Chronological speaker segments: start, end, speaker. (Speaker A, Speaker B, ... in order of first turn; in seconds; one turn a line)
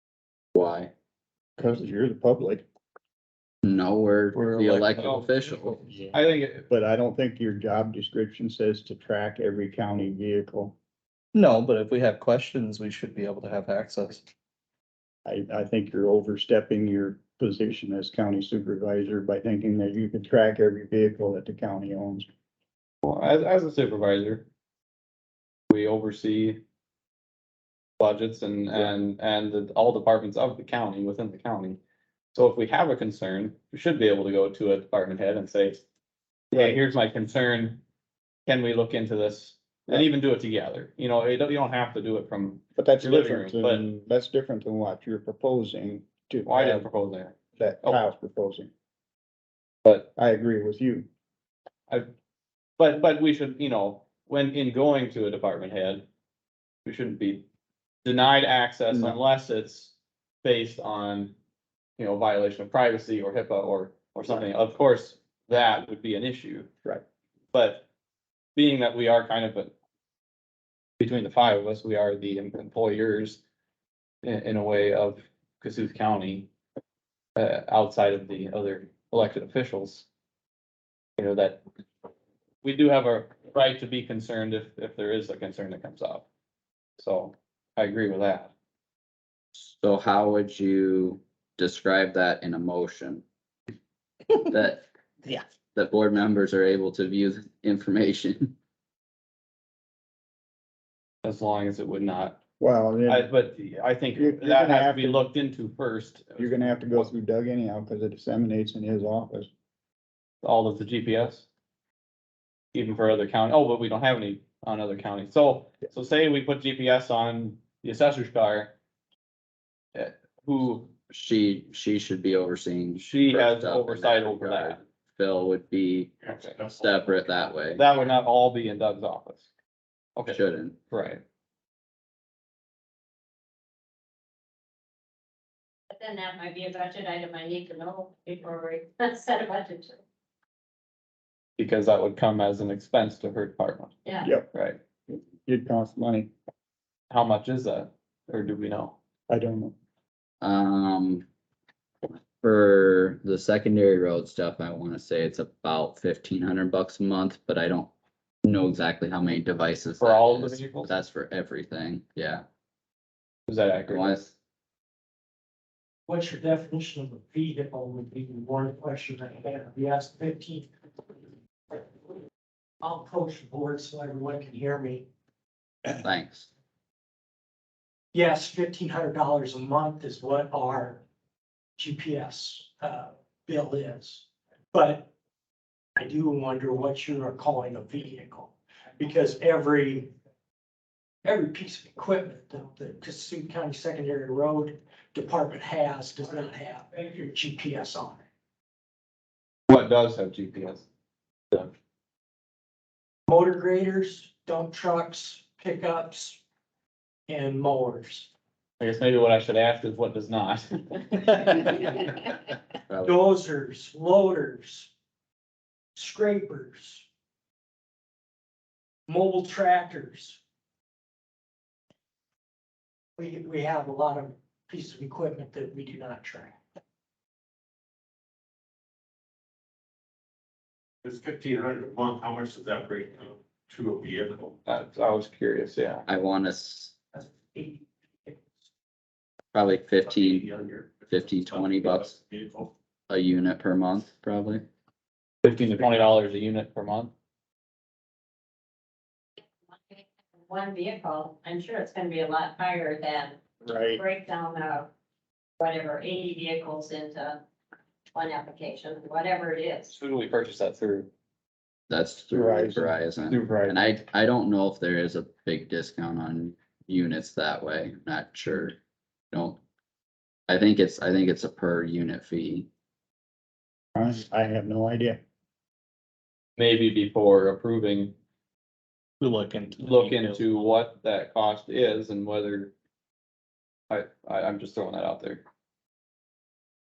Speaker A: 0.5-0.9
Speaker B: 1.6-2.6
Speaker A: 3.6-5.8
Speaker C: 4.3-5.9
Speaker D: 5.0-5.3
Speaker B: 5.8-6.2
Speaker D: 6.1-6.7
Speaker B: 6.7-10.8
Speaker C: 11.3-14.2
Speaker B: 15.2-22.3
Speaker D: 23.0-24.4
Speaker D: 25.7-26.6
Speaker D: 28.0-31.8
Speaker D: 32.3-35.8
Speaker D: 36.5-37.8
Speaker B: 36.5-36.8
Speaker D: 38.5-43.9
Speaker B: 42.8-46.8
Speaker D: 46.5-48.0
Speaker B: 47.6-48.7
Speaker B: 50.1-51.1
Speaker D: 52.8-56.0
Speaker D: 56.8-57.5
Speaker D: 58.0-61.3
Speaker B: 58.9-59.2
Speaker D: 62.0-66.7
Speaker D: 67.5-67.8
Speaker D: 68.5-69.7
Speaker D: 71.0-73.4
Speaker D: 74.2-76.5
Speaker D: 77.3-80.0
Speaker D: 81.2-81.6
Speaker D: 82.6-86.2
Speaker D: 87.0-88.5
Speaker A: 89.5-93.2
Speaker A: 94.5-94.8
Speaker A: 95.7-98.5
Speaker D: 101.2-102.4
Speaker B: 102.6-103.3
Speaker D: 103.1-107.1
Speaker B: 104.2-105.2
Speaker B: 106.4-109.5
Speaker D: 110.4-111.5
Speaker D: 112.7-118.7
Speaker D: 119.9-120.9
Speaker A: 121.1-127.8
Speaker D: 123.0-124.8
Speaker D: 126.3-126.7
Speaker D: 127.7-129.5
Speaker D: 130.2-131.2
Speaker A: 130.3-130.8
Speaker E: 135.9-140.0
Speaker D: 141.6-143.9
Speaker B: 144.2-144.5
Speaker D: 144.5-144.8
Speaker B: 145.1-146.3
Speaker D: 147.1-148.9
Speaker B: 149.3-149.7
Speaker A: 150.4-151.2
Speaker A: 152.4-157.9
Speaker A: 158.4-162.4
Speaker D: 160.0-160.9
Speaker D: 163.5-164.2
Speaker A: 163.9-164.3
Speaker F: 166.1-170.7
Speaker F: 171.7-171.9
Speaker F: 172.8-175.1
Speaker A: 175.9-176.5
Speaker F: 178.1-181.0
Speaker F: 181.8-185.1
Speaker F: 185.9-190.1
Speaker F: 191.2-198.2
Speaker D: 199.7-200.8
Speaker F: 203.3-206.4
Speaker F: 207.3-208.3
Speaker D: 208.8-212.1
Speaker A: 212.9-213.2
Speaker F: 213.0-214.9
Speaker F: 215.9-217.0
Speaker F: 219.1-220.4
Speaker F: 223.2-226.6
Speaker G: 231.0-234.5
Speaker D: 234.7-236.0
Speaker A: 236.1-236.9
Speaker F: 237.1-238.3
Speaker A: 239.5-240.5
Speaker G: 240.0-242.7
Speaker A: 241.1-242.2
Speaker A: 243.1-244.6
Speaker D: 245.4-247.1
Speaker E: 249.9-253.4
Speaker B: 253.6-254.0
Speaker E: 253.9-254.9
Speaker E: 255.6-257.4
Speaker E: 258.1-259.9
Speaker D: 259.9-261.1
Speaker A: 261.9-268.8
Speaker B: 262.3-262.9
Speaker D: 263.3-263.8
Speaker A: 269.3-269.6
Speaker A: 270.5-272.7
Speaker B: 273.9-275.2
Speaker D: 276.6-278.1
Speaker C: 279.2-280.4
Speaker D: 279.8-282.7
Speaker D: 283.9-285.4